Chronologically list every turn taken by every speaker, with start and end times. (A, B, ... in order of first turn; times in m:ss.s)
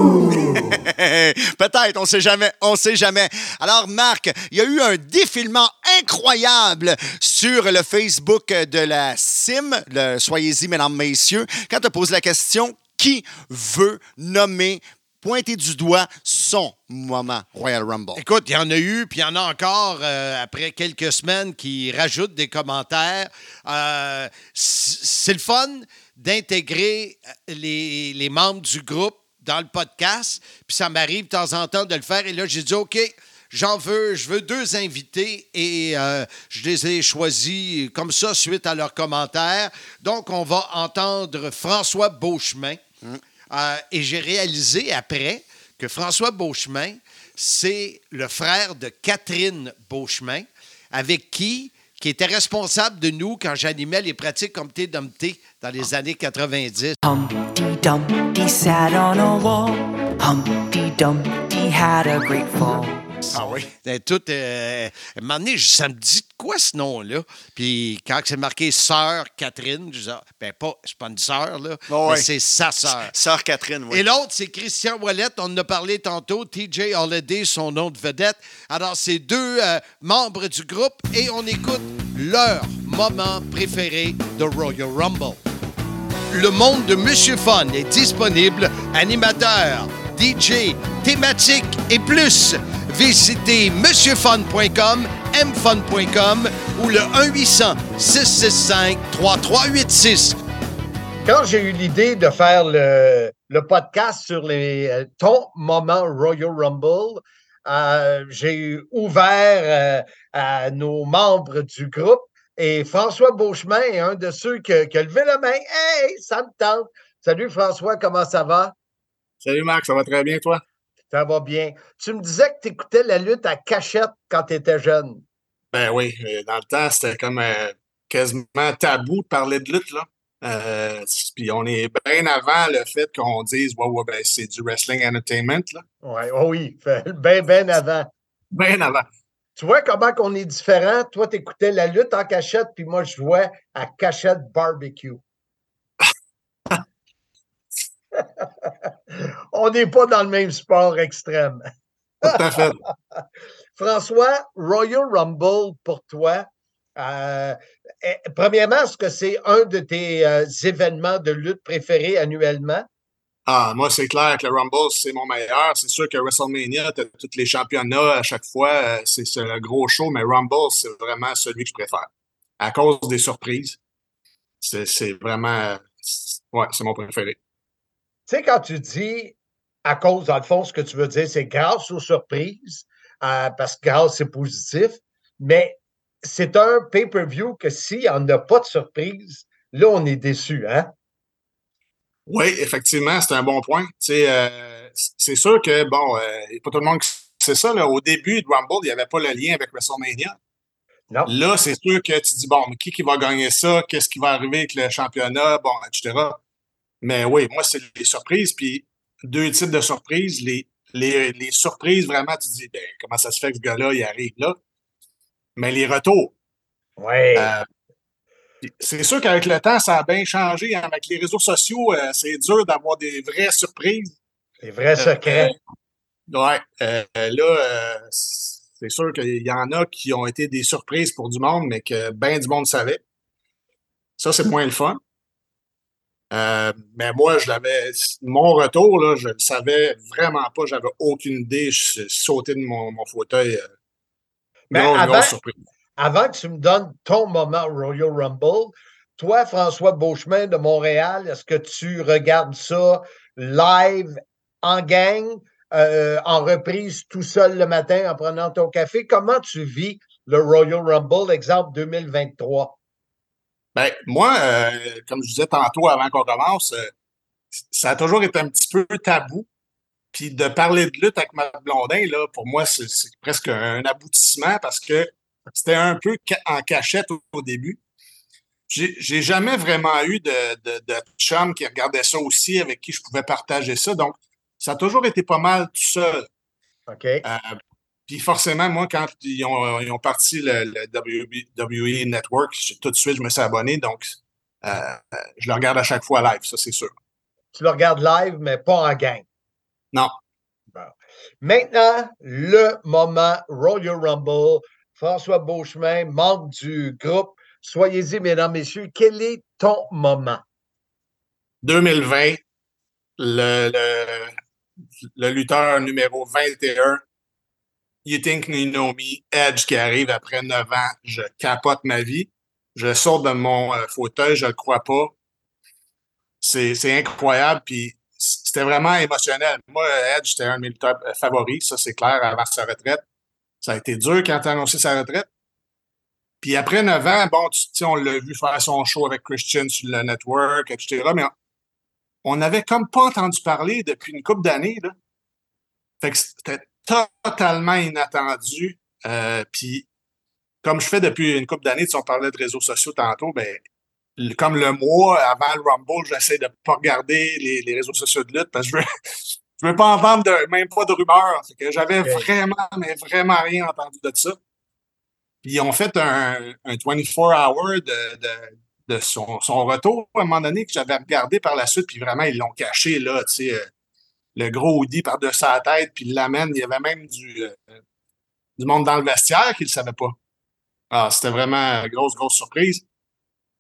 0:00.3-0:18.2 A
0:18.2-0:42.8 B
0:43.5-0:57.0 B
0:57.0-1:03.4 C
1:03.3-1:03.7 A
1:03.8-1:13.1 B
1:11.9-1:12.3 A
1:12.8-1:14.0 A
1:13.9-1:25.4 B
1:26.3-1:40.4 B
1:41.3-1:58.7 D
1:59.4-2:00.6 E
2:01.1-2:05.2 D
2:05.7-2:15.8 E
2:16.0-2:18.1 D
2:18.5-2:19.1 E
2:19.6-2:25.2 D
2:28.2-2:31.6 D
2:32.2-2:32.8 E
2:32.3-2:33.2 D
2:33.8-2:42.9 D
2:43.5-2:52.1 E
2:52.6-2:53.8 E
2:54.6-2:57.4 E
2:58.3-2:59.4 D
2:59.9-3:10.9 D
3:12.3-3:20.4 E
3:21.3-3:26.4 E
3:27.0-3:34.6 E
3:35.6-3:36.3 E
3:37.0-3:37.5 D
3:37.4-3:37.7 E
3:38.7-3:44.1 E
3:44.6-3:45.5 D
3:45.0-3:45.6 E
3:46.3-3:53.0 E
3:54.2-3:55.0 E
3:56.3-4:03.7 E
4:04.7-4:05.6 E
4:04.7-4:05.4 D
4:06.0-4:22.8 D
4:23.8-4:26.9 E
4:27.7-4:29.5 E
4:30.1-4:37.8 E
4:38.7-4:46.3 E
4:46.9-4:47.2 D
4:47.2-4:47.5 E
4:48.1-4:56.9 E
4:57.6-4:59.2 D
5:00.7-5:10.4 D
5:11.6-5:12.4 E
5:13.2-5:14.4 E
5:15.2-5:17.0 E
5:18.0-5:25.1 E
5:26.4-5:33.0 E
5:33.6-5:35.3 E
5:36.4-5:41.3 E
5:42.2-5:44.9 E
5:46.0-5:49.8 E
5:50.6-5:53.6 E
5:54.2-5:58.8 E
5:59.6-6:04.4 E
6:05.4-6:13.7 E
6:14.4-6:17.6 E
6:18.6-6:20.2 E
6:20.9-6:22.8 E